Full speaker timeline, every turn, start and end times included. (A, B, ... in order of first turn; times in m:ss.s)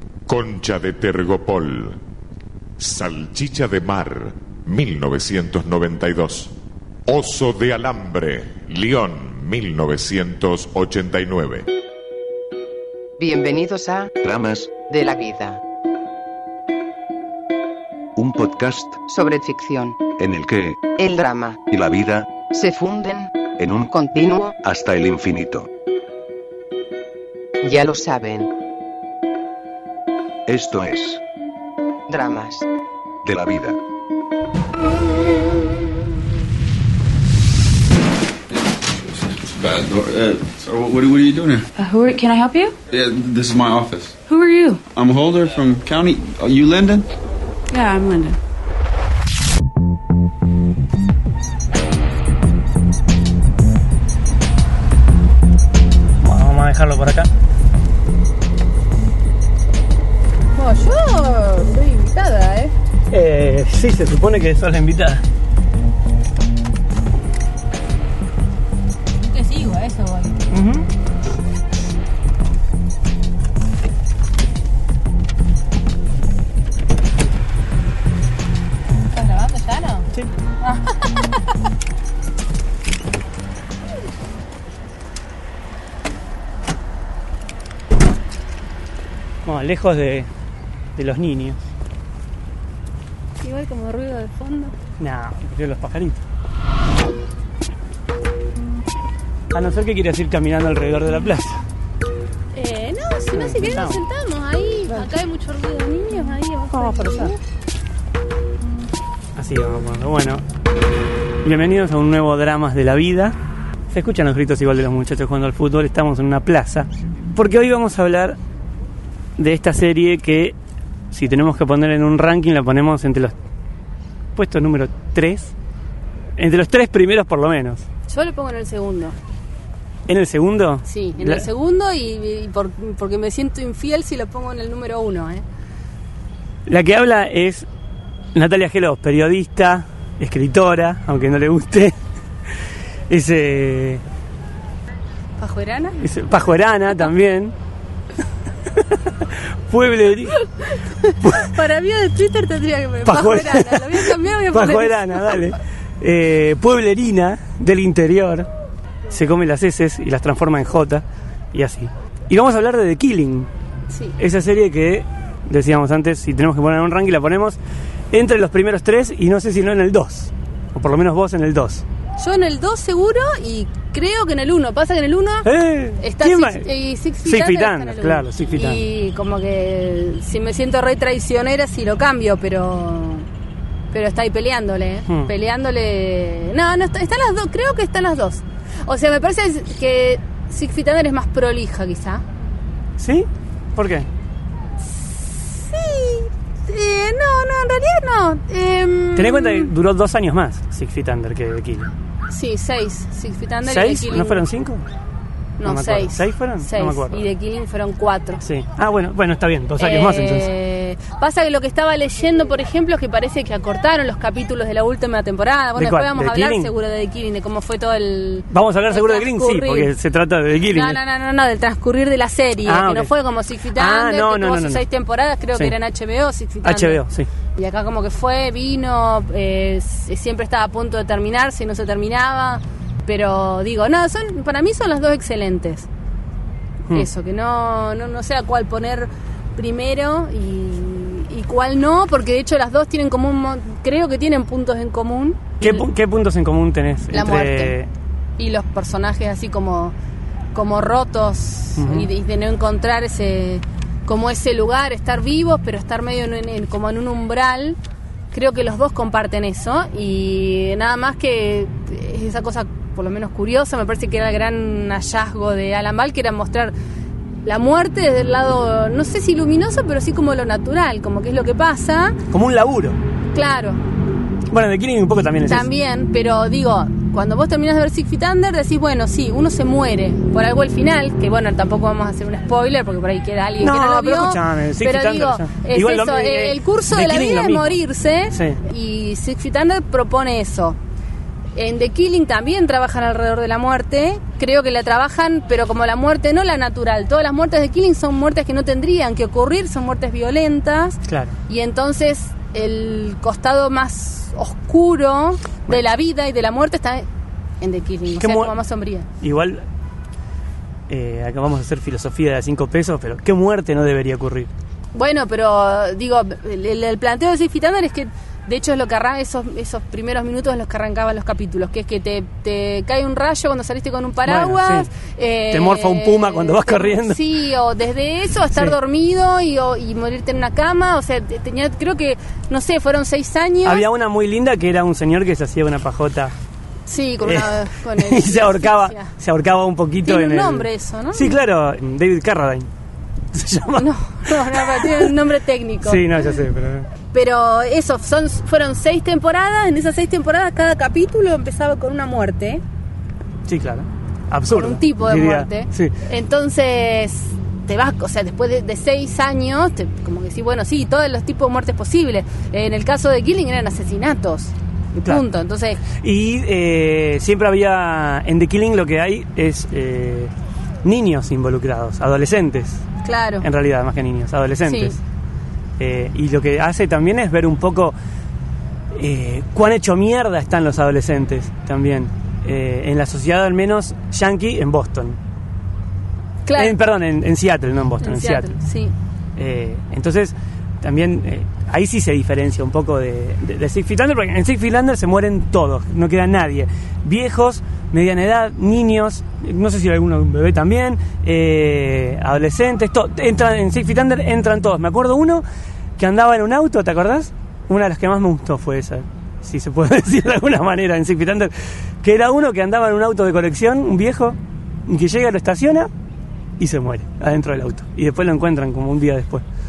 0:00.3-0:02.0 A
0:02.8-0:06.5 A
0:07.1-0:11.7 A
0:13.2-0:14.2 B
0:14.2-0:14.8 C
0:14.9-0:15.6 B
0:18.2-0:19.1 C
0:19.1-0:20.0 B
0:20.2-0:20.9 C
0:21.0-0:21.6 B
0:21.7-0:22.4 C
0:22.5-0:23.2 B
0:23.6-0:23.9 C
0:24.0-0:24.5 B
0:24.6-0:25.7 C
0:27.6-0:28.5 B
0:30.5-0:31.2 C
0:32.1-0:32.6 B
0:33.2-0:33.8 C
0:38.5-0:41.7 D
0:41.8-0:42.8 E
0:42.9-0:44.2 D
0:44.3-0:44.8 E
0:44.9-0:47.1 D
0:47.7-0:48.4 E
0:56.2-0:57.3 F
1:00.6-1:02.7 G
1:03.1-1:05.2 F
1:09.2-1:10.5 G
1:10.5-1:10.9 F
1:19.1-1:20.1 G
1:20.6-1:21.4 G
1:29.4-1:30.3 F
1:31.0-1:31.6 F
1:33.4-1:34.7 G
1:35.0-1:36.2 F
1:39.5-1:41.6 F
1:42.5-1:47.4 G
1:43.3-1:44.0 F
1:46.7-1:47.3 F
1:49.4-1:50.4 F
1:51.4-1:53.3 F
1:53.9-1:58.4 F
1:59.4-2:00.5 F
2:01.1-2:03.3 F
2:04.3-2:05.5 F
2:06.4-2:07.8 F
2:08.1-2:09.2 G
2:10.1-2:11.4 F
2:10.8-2:15.4 G
2:16.7-2:17.6 F
2:18.3-2:22.0 F
2:23.1-2:24.0 F
2:25.4-2:26.0 G
2:26.0-2:27.5 F
2:28.8-2:30.4 F
2:30.6-2:35.4 G
2:31.2-2:31.5 F
2:33.0-2:38.5 F
2:39.1-2:43.5 F
2:43.9-2:44.2 G
2:44.2-2:47.6 F
2:48.1-2:51.8 F
2:52.2-3:03.3 G
2:55.4-2:56.7 F
2:57.2-2:58.8 F
3:03.9-3:12.2 G
3:13.0-3:14.1 F
3:14.8-3:19.7 G
3:19.2-3:21.9 F
3:22.3-3:24.4 G
3:23.6-3:24.9 F
3:25.6-3:28.4 G
3:25.6-3:27.2 F
3:28.4-3:30.5 F
3:29.8-3:39.9 G
3:35.8-3:36.7 F
3:38.5-3:41.0 F
3:40.7-3:47.0 G
3:42.7-3:43.1 F
3:43.7-3:44.8 F
3:46.6-3:47.3 F
3:47.6-3:55.9 G
3:56.9-4:05.8 G
4:05.6-4:07.9 F
4:07.1-4:07.7 G
4:08.4-4:09.9 G
4:10.5-4:17.8 G
4:11.8-4:12.1 F
4:18.3-4:26.7 G
4:27.4-4:32.2 G
4:32.3-4:33.0 F
4:33.3-4:33.8 G
4:34.5-4:35.7 F
4:35.4-4:50.8 G
4:43.6-4:47.8 F
4:48.3-4:48.6 F
4:51.5-5:07.1 G
5:01.1-5:01.3 F
5:07.6-5:09.1 G
5:08.2-5:08.5 F
5:09.2-5:09.6 F
5:10.9-5:14.5 F
5:14.9-5:33.8 G
5:24.2-5:24.9 F
5:25.5-5:27.2 F
5:33.6-5:36.3 F
5:36.9-5:39.1 G
5:37.2-5:42.7 F
5:40.0-5:41.4 G
5:43.3-5:45.1 F
5:43.8-5:46.2 G
5:45.8-5:46.9 F
5:47.1-5:52.6 G
5:53.5-5:55.9 F
5:54.4-6:05.8 G
6:05.9-6:10.3 F
6:10.8-6:12.8 F
6:13.0-6:13.4 G
6:13.4-6:15.0 F
6:14.6-6:15.0 G
6:15.8-6:17.9 F
6:18.9-6:25.2 F
6:26.4-6:26.8 G
6:26.6-6:28.5 F
6:28.0-6:28.9 G
6:29.4-6:45.4 F
6:46.0-6:55.9 F
6:56.6-6:59.4 F